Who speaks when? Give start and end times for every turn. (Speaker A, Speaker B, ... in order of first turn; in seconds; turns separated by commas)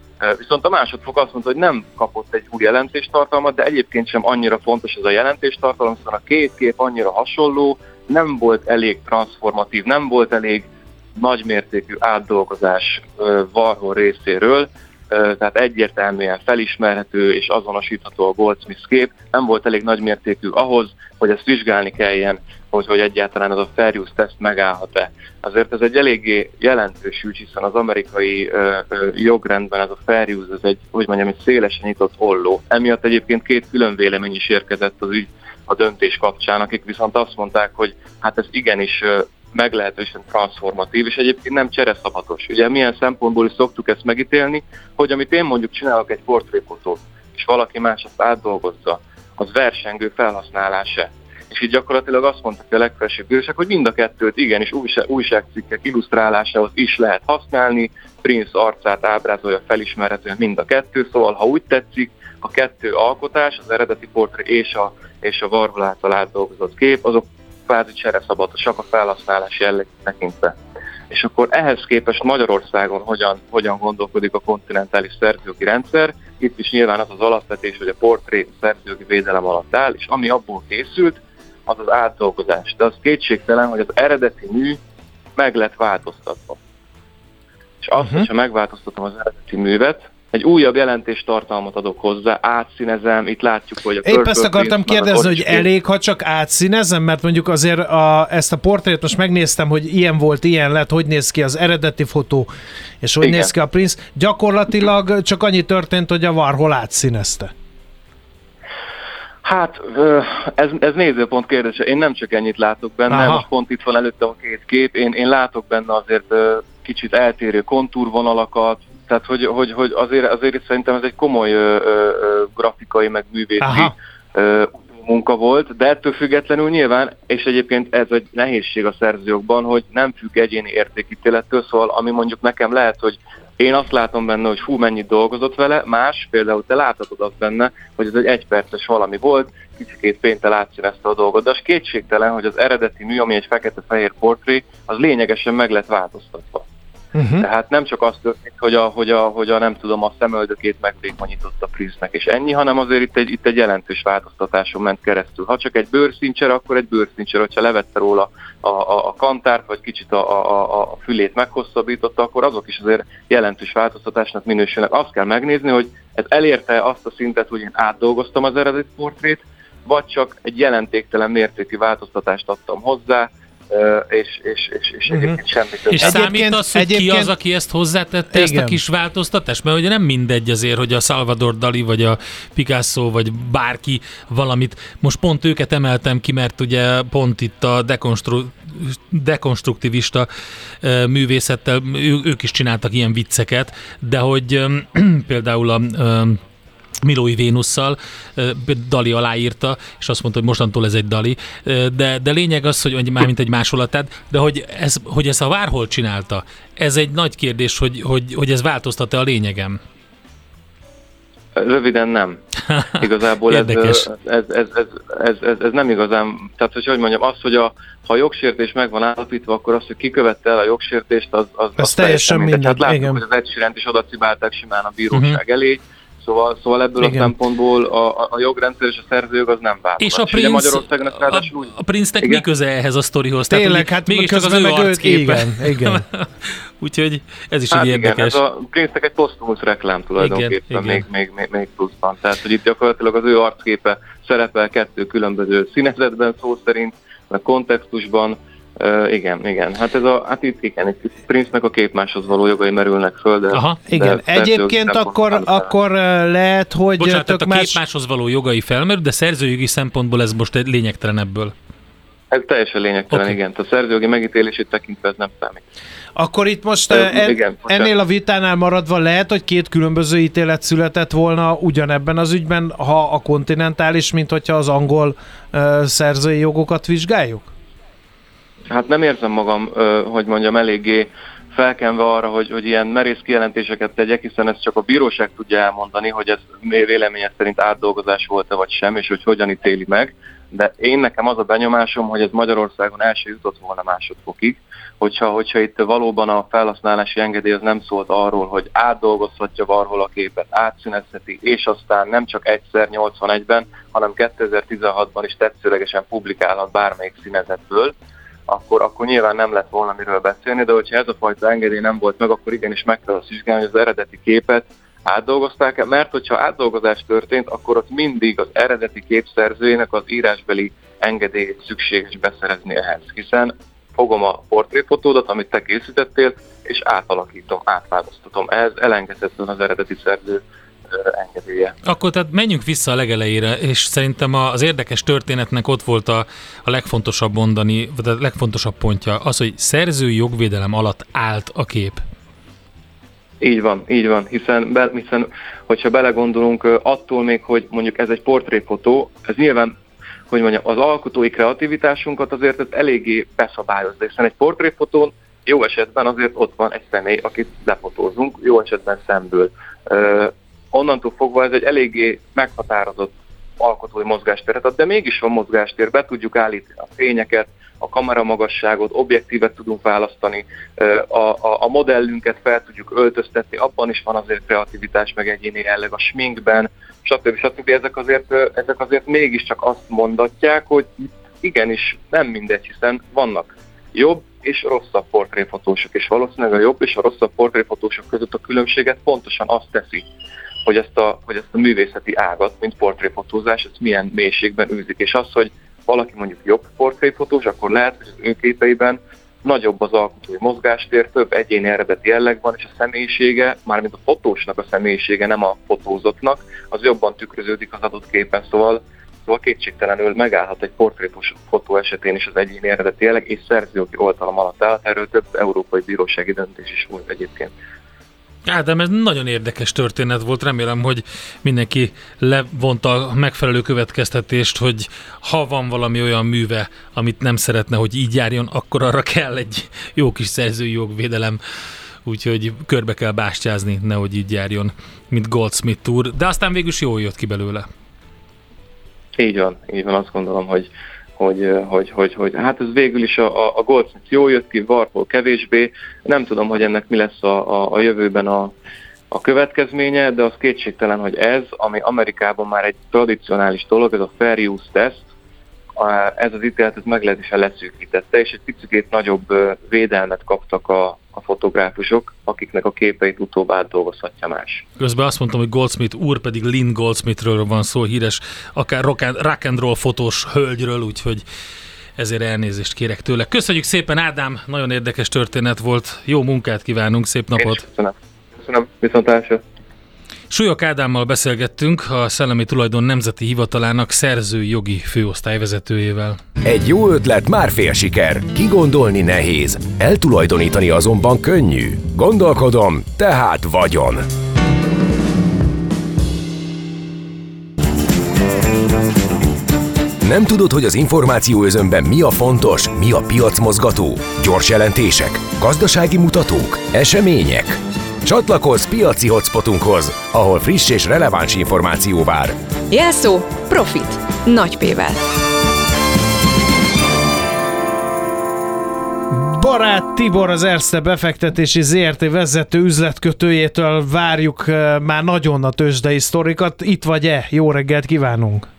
Speaker A: 0.2-70.5, Speaker A: 71.1-84.8, Speaker A: 85.3-86.6, Speaker A: 87.8-95.7, Speaker B: 88.0-88.3, Speaker B: 94.0-102.5, Speaker B: 103.0-107.5, Speaker A: 103.2-103.5, Speaker A: 109.4-146.6, Speaker B: 113.1-113.4, Speaker B: 123.6-123.9, Speaker B: 147.1-147.4, Speaker A: 147.4-176.1, Speaker B: 175.1-175.4, Speaker C: 175.9-190.3, Speaker B: 176.0-177.3, Speaker B: 178.3-178.8, Speaker C: 190.8-196.4, Speaker C: 197.0-209.8, Speaker A: 211.5-212.4, Speaker A: 213.0-232.4, Speaker C: 213.5-214.1, Speaker B: 221.8-223.2, Speaker C: 225.1-225.4, Speaker B: 227.0-227.3, Speaker C: 230.0-238.4, Speaker B: 233.5-236.0, Speaker A: 237.7-255.7, Speaker C: 240.2-241.0, Speaker C: 253.5-253.8, Speaker B: 253.9-257.8, Speaker C: 257.0-261.5, Speaker A: 262.3-265.6, Speaker C: 263.1-263.4, Speaker B: 266.1-277.5, Speaker A: 266.9-267.9, Speaker A: 278.7-307.9, Speaker A: 308.5-331.8, Speaker C: 331.9-342.0, Speaker A: 343.4-349.7, Speaker A: 350.3-390.1, Speaker A: 390.6-417.5, Speaker C: 418.4-431.4, Speaker C: 432.0-437.7, Speaker A: 439.2-448.5, Speaker A: 449.1-455.1, Speaker A: 455.8-464.6, Speaker C: 464.8-471.2, Speaker C: 472.0-477.6, Speaker A: 477.4-479.4, Speaker C: 480.3-486.2, Speaker D: 486.4-494.1, Speaker D: 500.0-512.4, Speaker E: 512.7-515.0, Speaker B: 519.1-528.5